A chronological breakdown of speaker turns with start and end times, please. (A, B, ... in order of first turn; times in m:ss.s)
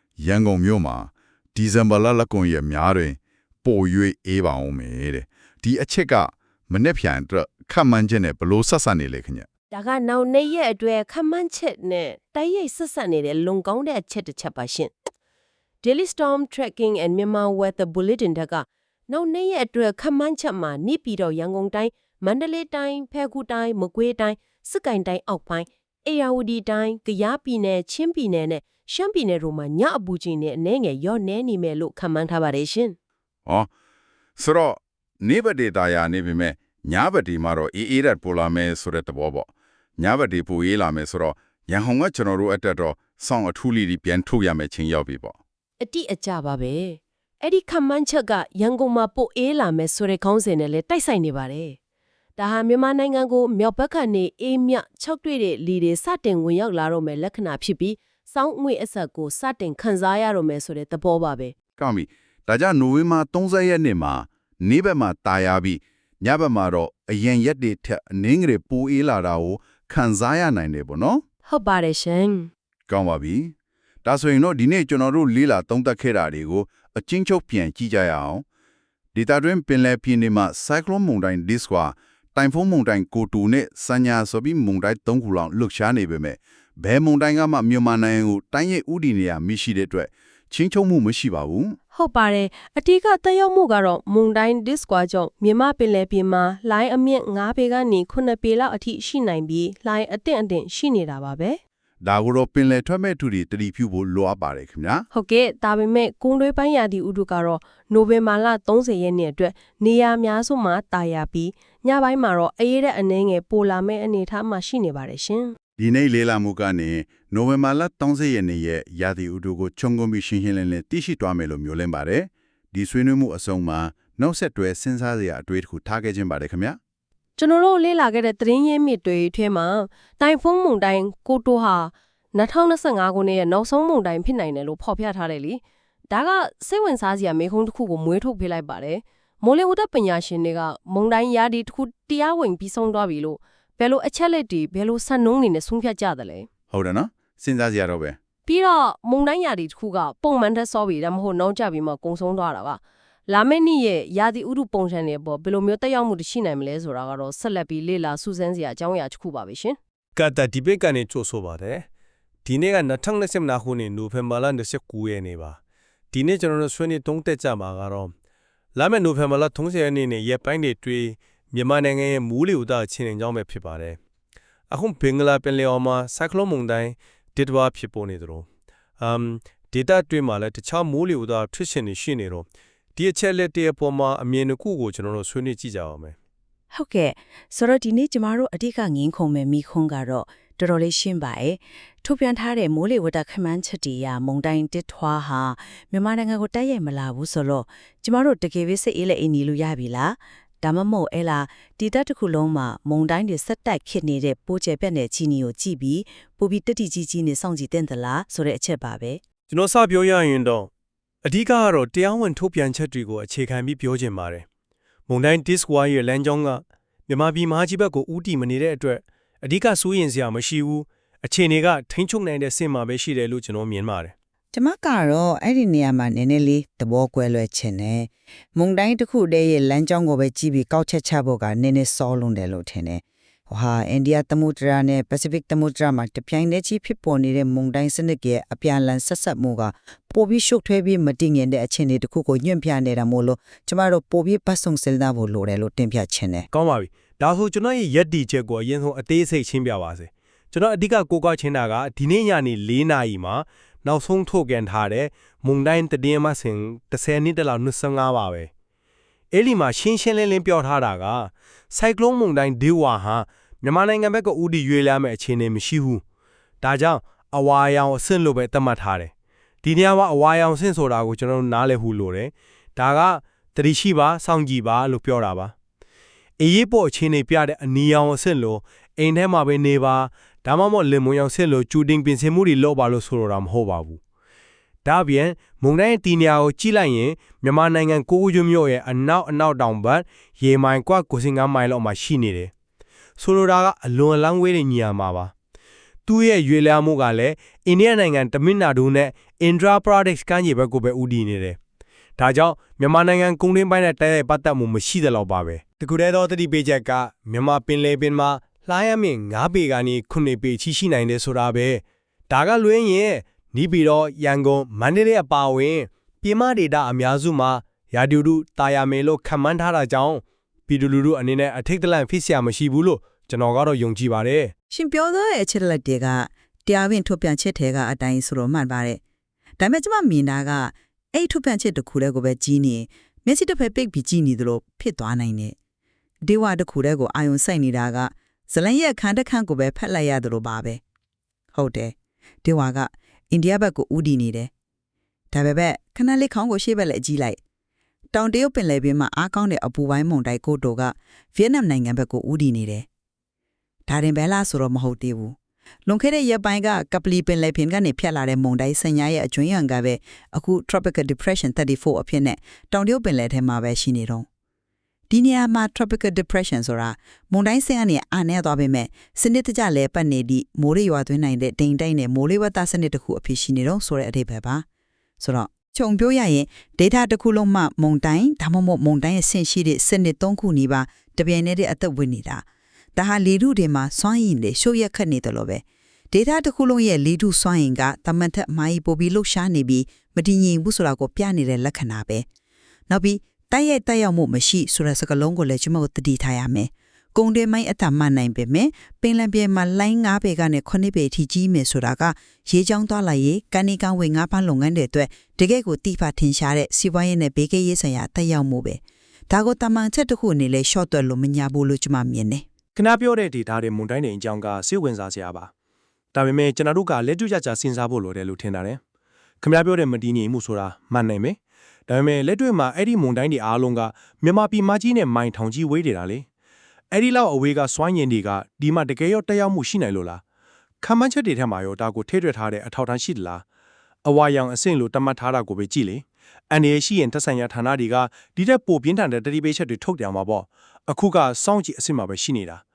0:00.2-0:09.5 A
0:09.7-0:14.9 B
0:15.8-0:33.0 B
0:34.4-0:45.4 A
0:45.8-0:51.8 B
0:52.4-1:01.5 B
1:01.8-1:11.2 A
1:11.5-1:12.5 B
1:12.9-1:18.4 A
1:19.1-1:31.8 A
1:31.9-1:41.6 B
1:42.0-1:45.1 A
1:45.1-1:55.6 B
1:55.8-2:06.8 A
2:07.4-2:26.5 B
2:26.7-2:28.2 A
2:28.5-2:39.8 B
2:40.2-2:41.9 C
2:42.4-2:45.6 C
2:46.1-2:48.1 C
2:48.8-2:54.0 C
2:54.7-2:58.5 C
2:59.0-3:06.2 C
3:06.7-3:29.2 D
3:29.5-3:30.7 C
3:31.2-3:34.5 C
3:35.1-3:44.1 C
3:44.5-4:06.5 E
4:06.5-4:18.5 C
4:19.3-4:26.0 C
4:26.6-4:29.1 C
4:29.6-4:35.5 C
4:36.4-4:44.0 C
4:44.8-4:52.5 C
4:53.2-4:55.3 C
4:56.1-5:01.6 C
5:02.2-5:24.5 C
5:24.7-5:29.0 E
5:29.6-5:35.6 E
5:36.2-5:40.8 E
5:41.5-5:44.5 E
5:45.3-5:47.4 E
5:48.1-5:52.9 E
5:53.9-6:04.3 E
6:05.1-6:14.6 E
6:15.2-6:32.3 E
6:32.9-6:52.5 E
6:52.8-6:55.5 C
6:56.1-6:58.8 C
6:59.4-7:01.4 C
7:01.9-7:06.3 C
7:06.9-7:10.2 C
7:10.8-7:13.4 C
7:14.0-7:22.6 C